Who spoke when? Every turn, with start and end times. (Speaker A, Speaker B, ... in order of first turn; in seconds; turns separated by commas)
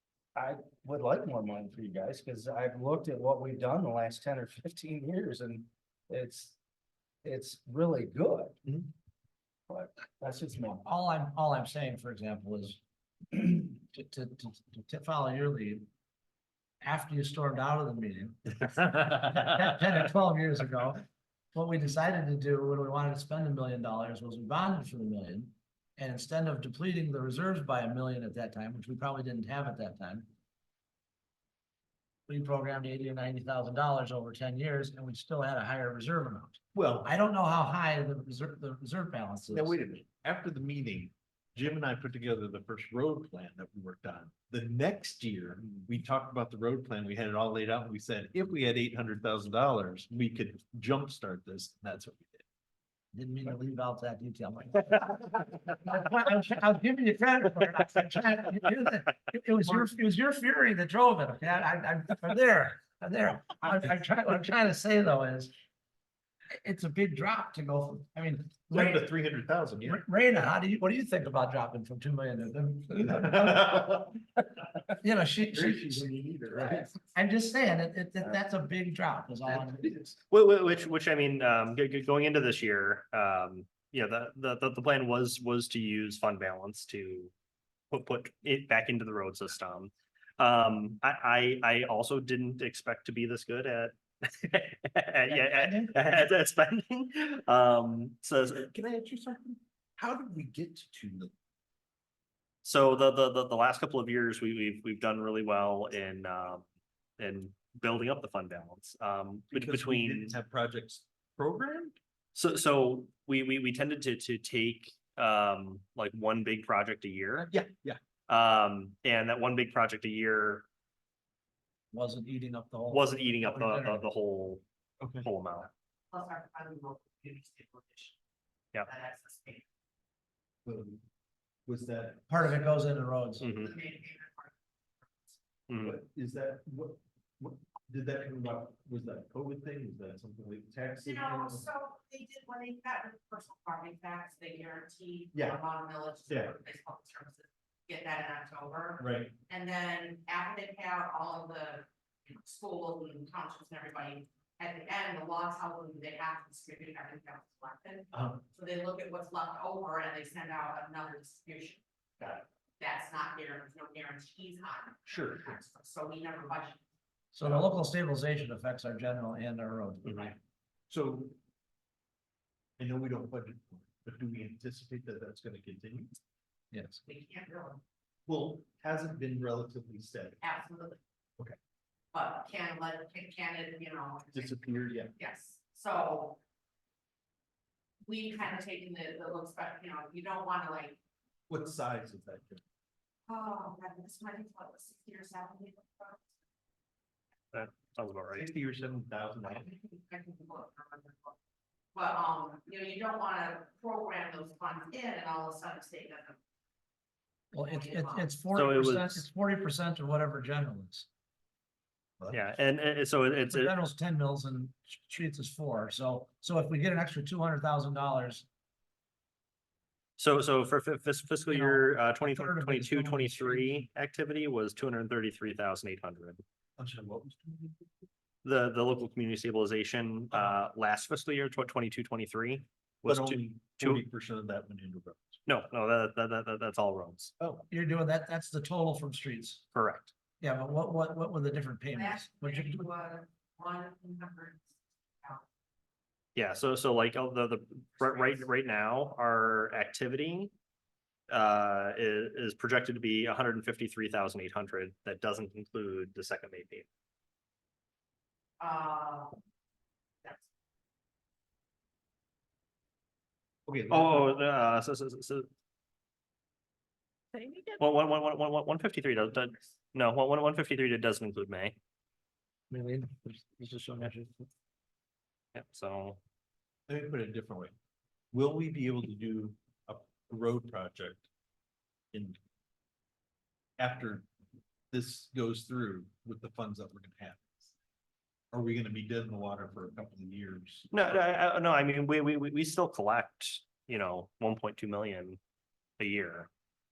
Speaker A: 0.3-6.6, Speaker A: 7.2-8.6, Speaker A: 9.7-10.9, Speaker B: 10.8-12.8, Speaker B: 13.3-15.9, Speaker B: 16.8-30.3, Speaker B: 32.3-39.8, Speaker C: 36.7-37.1, Speaker C: 39.5-52.5, Speaker B: 53.1-65.5, Speaker B: 66.5-69.0, Speaker C: 68.7-70.0, Speaker B: 69.8-73.8, Speaker C: 73.1-74.2, Speaker B: 75.0-80.0, Speaker C: 75.5-77.0, Speaker C: 79.8-80.2, Speaker D: 80.3-87.3, Speaker D: 87.9-98.7, Speaker B: 95.3-96.1, Speaker C: 98.5-101.3, Speaker D: 102.6-106.7, Speaker D: 107.2-110.4, Speaker C: 109.5-112.0, Speaker D: 112.3-117.5, Speaker C: 117.5-118.0, Speaker D: 118.3-120.7, Speaker B: 121.9-124.1, Speaker D: 122.9-124.6, Speaker C: 125.0-125.3, Speaker D: 125.2-125.7, Speaker E: 126.1-128.2, Speaker E: 128.8-129.7, Speaker C: 130.7-131.0, Speaker C: 131.7-132.5, Speaker B: 132.3-133.5, Speaker D: 133.4-133.7, Speaker E: 133.4-135.4, Speaker D: 135.7-136.0, Speaker C: 135.8-141.7, Speaker E: 141.0-161.8, Speaker C: 145.3-145.6, Speaker C: 146.3-146.5, Speaker C: 149.0-149.4, Speaker C: 158.1-158.4, Speaker E: 162.8-166.8, Speaker C: 165.1-165.6, Speaker B: 167.3-170.4, Speaker C: 167.4-167.7, Speaker D: 170.1-170.3, Speaker C: 170.9-171.3, Speaker C: 172.8-176.2, Speaker B: 176.7-177.0, Speaker E: 177.1-177.8, Speaker C: 178.3-180.4, Speaker E: 180.4-181.0, Speaker E: 182.1-186.4, Speaker C: 184.3-185.1, Speaker E: 188.1-191.0, Speaker C: 191.5-192.6, Speaker E: 193.3-196.3, Speaker D: 197.5-198.5, Speaker C: 198.3-199.7, Speaker E: 199.5-201.4, Speaker E: 201.9-206.4, Speaker B: 207.5-211.1, Speaker E: 207.6-208.4, Speaker D: 208.5-209.2, Speaker D: 212.3-213.8, Speaker B: 213.5-218.5, Speaker D: 220.2-226.4, Speaker B: 221.5-223.8, Speaker C: 226.8-227.8, Speaker D: 228.4-234.0, Speaker C: 233.1-235.4, Speaker D: 235.5-237.3, Speaker C: 237.4-237.7, Speaker B: 237.7-239.6, Speaker D: 239.7-240.1, Speaker B: 240.4-242.9, Speaker E: 241.9-245.5, Speaker D: 246.4-250.5, Speaker E: 248.0-248.5, Speaker D: 251.3-256.9, Speaker E: 258.6-259.4, Speaker C: 263.7-264.3, Speaker D: 263.9-265.5, Speaker E: 267.4-267.8, Speaker D: 267.8-271.8, Speaker B: 272.7-274.5, Speaker D: 275.5-276.2, Speaker C: 276.9-277.8, Speaker C: 278.3-281.3, Speaker C: 282.1-282.4, Speaker C: 283.8-284.3, Speaker C: 284.9-287.7, Speaker C: 288.5-290.9, Speaker D: 290.9-295.4, Speaker D: 296.0-296.5